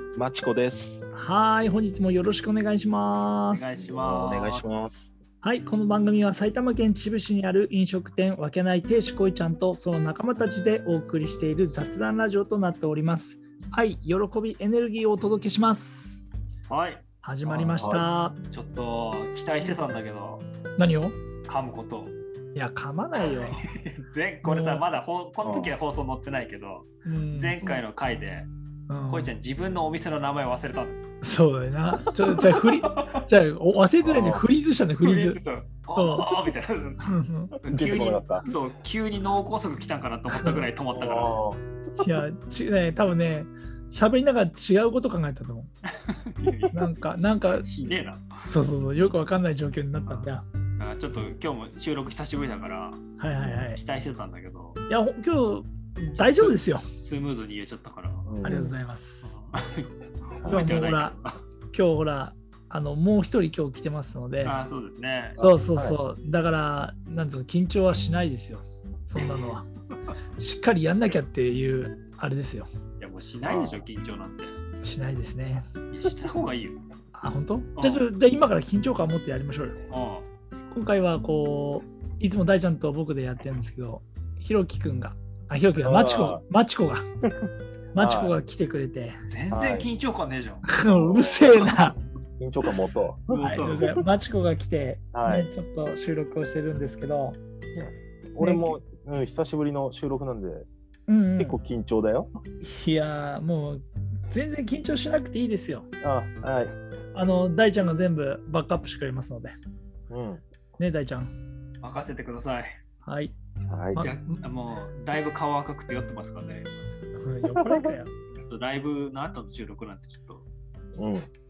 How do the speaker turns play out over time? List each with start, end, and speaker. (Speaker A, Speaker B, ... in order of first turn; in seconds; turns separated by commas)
Speaker A: 0.1-1.0, Speaker B: 1.1-3.7, Speaker C: 3.5-4.7, Speaker A: 3.7-5.2, Speaker B: 5.4-16.3, Speaker C: 16.7-17.0, Speaker B: 17.2-18.4, Speaker A: 17.4-18.0, Speaker C: 18.5-20.4, Speaker B: 20.8-21.2, Speaker C: 21.4-22.1, Speaker B: 22.6-23.6, Speaker C: 23.2-28.5, Speaker B: 24.4-24.8, Speaker A: 25.4-25.7, Speaker B: 27.1-27.6, Speaker B: 28.9-29.3, Speaker C: 29.1-31.1, Speaker B: 31.2-35.4, Speaker C: 32.2-33.3, Speaker A: 34.0-34.5, Speaker C: 35.0-37.0, Speaker B: 36.0-36.5, Speaker B: 37.0-37.5, Speaker C: 37.6-41.4, Speaker A: 37.7-38.5, Speaker B: 40.4-40.7, Speaker A: 40.9-42.0, Speaker B: 42.0-45.7, Speaker C: 46.1-46.8, Speaker B: 46.7-47.7, Speaker C: 47.6-48.5, Speaker B: 48.5-50.4, Speaker C: 50.0-53.0, Speaker B: 53.2-53.8, Speaker A: 53.4-53.7, Speaker C: 53.7-54.8, Speaker B: 54.9-56.8, Speaker C: 56.2-58.3, Speaker A: 58.2-58.8, Speaker B: 58.4-59.4, Speaker C: 59.2-61.4, Speaker A: 60.4-60.8, Speaker B: 60.5-61.2, Speaker B: 61.7-64.6, Speaker C: 64.4-65.4, Speaker A: 65.4-66.0, Speaker B: 65.4-69.6, Speaker C: 69.2-70.1, Speaker B: 70.4-72.7, Speaker C: 73.0-74.6, Speaker A: 73.4-73.9, Speaker B: 74.8-75.7, Speaker C: 75.9-76.8, Speaker B: 77.1-79.8, Speaker C: 77.8-78.0, Speaker C: 79.9-80.3, Speaker B: 80.7-87.0, Speaker A: 85.8-86.4, Speaker B: 87.9-89.2, Speaker A: 88.0-88.4, Speaker C: 89.3-90.7, Speaker A: 89.5-89.9, Speaker B: 90.7-91.9, Speaker A: 90.8-91.7, Speaker A: 92.4-94.0, Speaker C: 93.3-93.9, Speaker B: 93.3-97.4, Speaker A: 95.1-95.5, Speaker A: 97.7-100.7, Speaker B: 98.4-98.8, Speaker B: 101.1-101.6, Speaker A: 101.4-102.3, Speaker B: 102.6-105.9, Speaker A: 106.0-106.8, Speaker B: 107.1-109.5, Speaker A: 110.1-110.4, Speaker B: 110.8-111.3, Speaker C: 111.8-112.7, Speaker B: 113.0-113.3, Speaker A: 113.7-114.1, Speaker B: 113.9-114.4, Speaker C: 114.0-116.9, Speaker B: 117.2-118.1, Speaker A: 117.5-117.9, Speaker C: 118.4-120.5, Speaker A: 121.0-121.3